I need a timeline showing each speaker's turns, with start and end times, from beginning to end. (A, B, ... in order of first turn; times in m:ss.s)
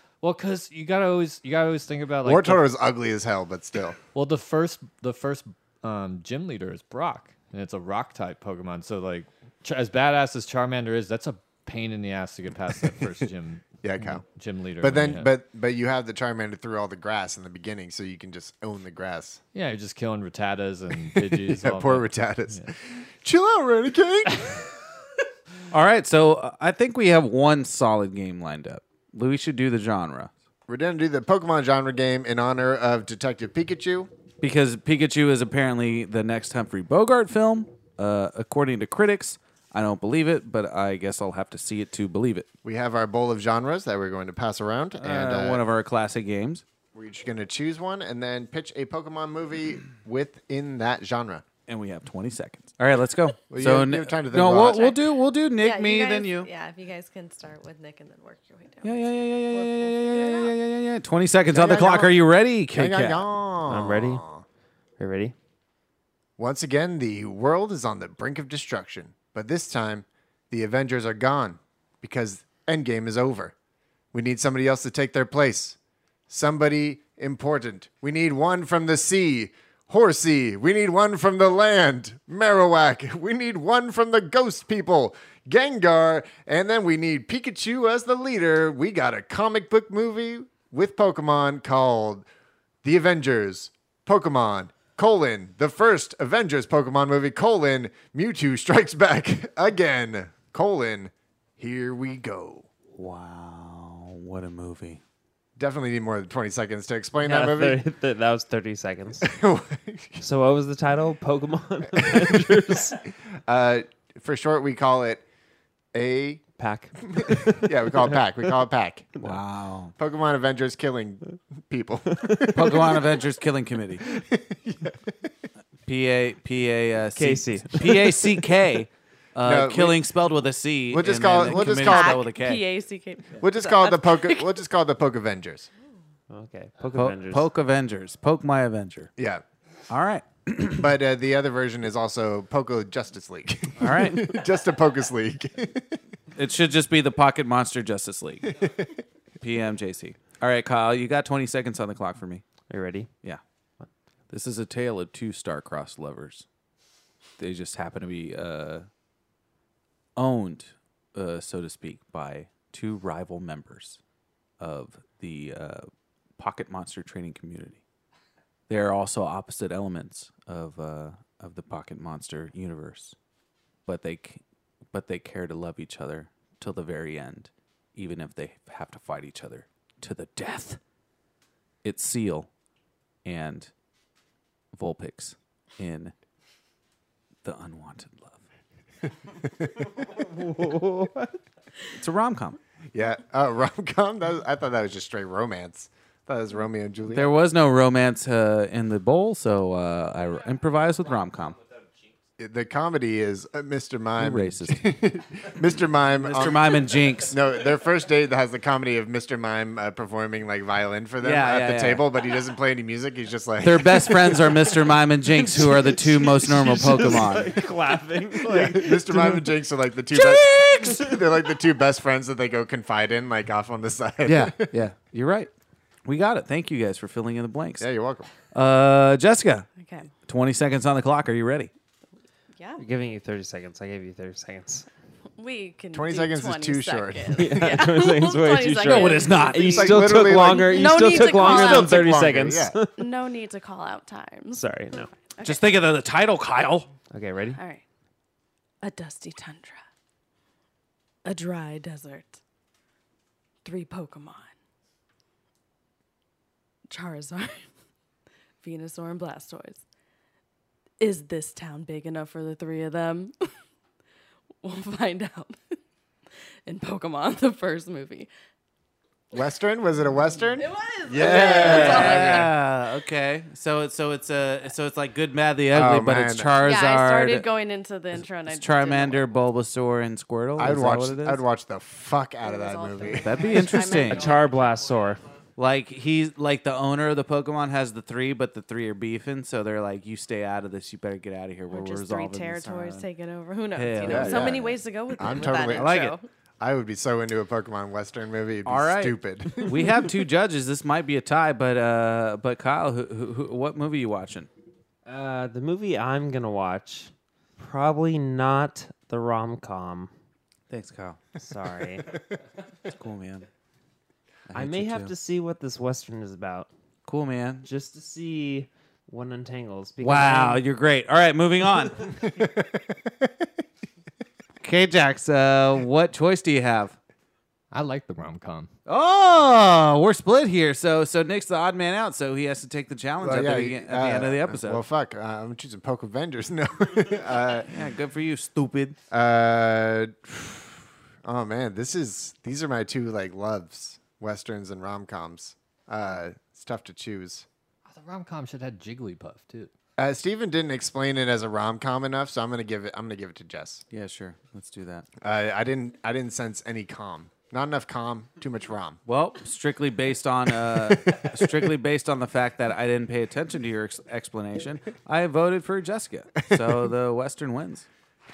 0:00.2-0:02.6 A
0:02.2-0:04.0 B
0:04.1-0:15.3 A
0:13.8-0:14.2 B
0:14.8-0:19.4 B
0:19.5-0:22.7 A
0:21.1-0:24.6 B
0:25.7-0:30.3 C
0:30.7-0:34.1 B
0:34.4-0:42.5 C
0:42.6-0:45.6 B
0:45.0-0:46.6 C
0:46.9-0:51.4 B
0:51.7-0:56.5 C
0:53.5-0:55.0 B
0:55.6-1:00.5 D
0:58.8-1:03.2 C
1:01.5-1:04.4 B
1:03.6-1:04.2 E
1:05.0-1:05.3 E
1:06.4-1:13.5 B
1:14.1-1:15.8 B
1:16.3-1:32.2 B
1:32.8-1:42.7 B
1:43.0-1:45.0 C
1:45.6-1:47.8 B
1:47.2-1:49.3 E
1:49.2-1:50.2 B
1:50.2-1:53.0 E
1:51.9-1:55.2 B
1:55.9-1:56.4 B
1:56.6-1:58.2 E
1:57.1-1:59.2 B
1:59.2-1:59.9 C
2:00.0-2:03.0 B
2:02.2-2:02.5 E
2:02.5-2:04.0 C
2:04.0-2:05.2 B
2:05.9-2:12.6 C
2:07.2-2:08.2 E
2:09.4-2:10.0 B
2:10.9-2:12.2 B
2:11.5-2:14.5 D
2:13.4-2:15.7 B
2:16.3-2:17.5 E
2:16.9-2:19.1 C
2:19.2-2:19.4 B
2:19.9-2:20.9 C
2:20.7-2:26.0 B
2:23.8-2:24.3 C
2:26.3-2:28.6 C
2:29.4-2:32.4 C
2:32.7-2:33.1 E
2:34.3-2:36.4 C
2:37.4-2:38.9 C
2:40.2-2:44.0 C
2:44.6-2:47.8 C
2:48.7-2:53.1 C
2:53.9-2:54.4 C
2:54.9-3:00.8 C
3:01.8-3:02.5 C
3:03.2-3:03.7 C
3:04.7-3:06.1 C
3:07.4-3:08.4 C
3:10.2-3:11.3 E
3:11.9-3:12.6 C
3:12.9-3:17.3 B
3:17.1-3:21.6 C
3:22.4-3:34.7 B
3:24.2-3:24.9 C
3:26.2-3:27.4 C
3:31.2-3:32.0 C
3:33.6-3:37.5 C
3:35.4-3:39.4 E
3:36.9-3:37.3 B
3:38.4-3:44.7 B
3:40.4-3:41.0 E
3:44.2-3:45.5 C
3:46.0-3:47.9 C
3:47.8-3:48.3 B
3:48.5-3:49.7 C
3:49.8-3:50.1 D
3:50.3-3:51.7 C
3:52.6-3:52.8 D
3:52.8-3:54.8 E
3:55.4-3:59.7 D
3:55.9-3:57.8 B
3:57.3-4:03.1 E
3:58.8-4:00.1 C
3:59.6-4:02.8 B
4:00.5-4:02.1 D
4:03.0-4:04.6 D
4:04.5-4:05.1 E
4:05.4-4:05.6 D
4:05.4-4:06.9 C
4:07.1-4:07.6 E
4:07.6-4:07.8 D
4:08.8-4:09.8 D
4:11.2-4:12.4 D
4:13.6-4:14.5 D
4:16.9-4:17.6 D
4:18.6-4:19.8 D
4:21.0-4:23.3 D
4:24.6-4:25.6 D
4:26.6-4:28.3 D
4:29.3-4:32.5 B
4:30.6-4:32.5 D
4:31.2-4:37.5 C
4:35.7-4:36.5 B
4:36.6-4:39.4 D
4:38.1-4:41.4 C
4:40.6-4:43.4 B
4:42.4-4:44.4 D
4:43.1-4:44.3 C
4:43.7-4:45.2 E
4:45.6-4:53.1 C
4:51.7-4:56.2 D
4:53.7-4:54.7 C
4:54.0-4:59.9 B
4:55.5-4:56.2 C
4:58.6-5:04.5 C
5:05.0-5:10.1 E
5:10.7-5:11.2 C
5:11.4-5:12.1 E
5:12.9-5:13.5 C
5:14.5-5:15.1 C
5:14.5-5:16.7 E
5:17.0-5:17.7 C
5:17.6-5:20.6 E
5:20.0-5:22.1 C
5:22.2-5:23.3 B
5:24.6-5:27.0 C
5:27.7-5:28.7 A
5:28.8-5:34.8 C
5:33.2-5:37.7 B
5:37.7-5:39.0 C
5:39.1-5:47.4 B
5:47.8-5:49.7 A
5:50.0-5:53.8 B
5:53.9-5:55.1 C
5:55.2-5:59.0 B
5:59.0-6:07.9 C
6:00.7-6:01.4 B
6:06.5-6:06.9 B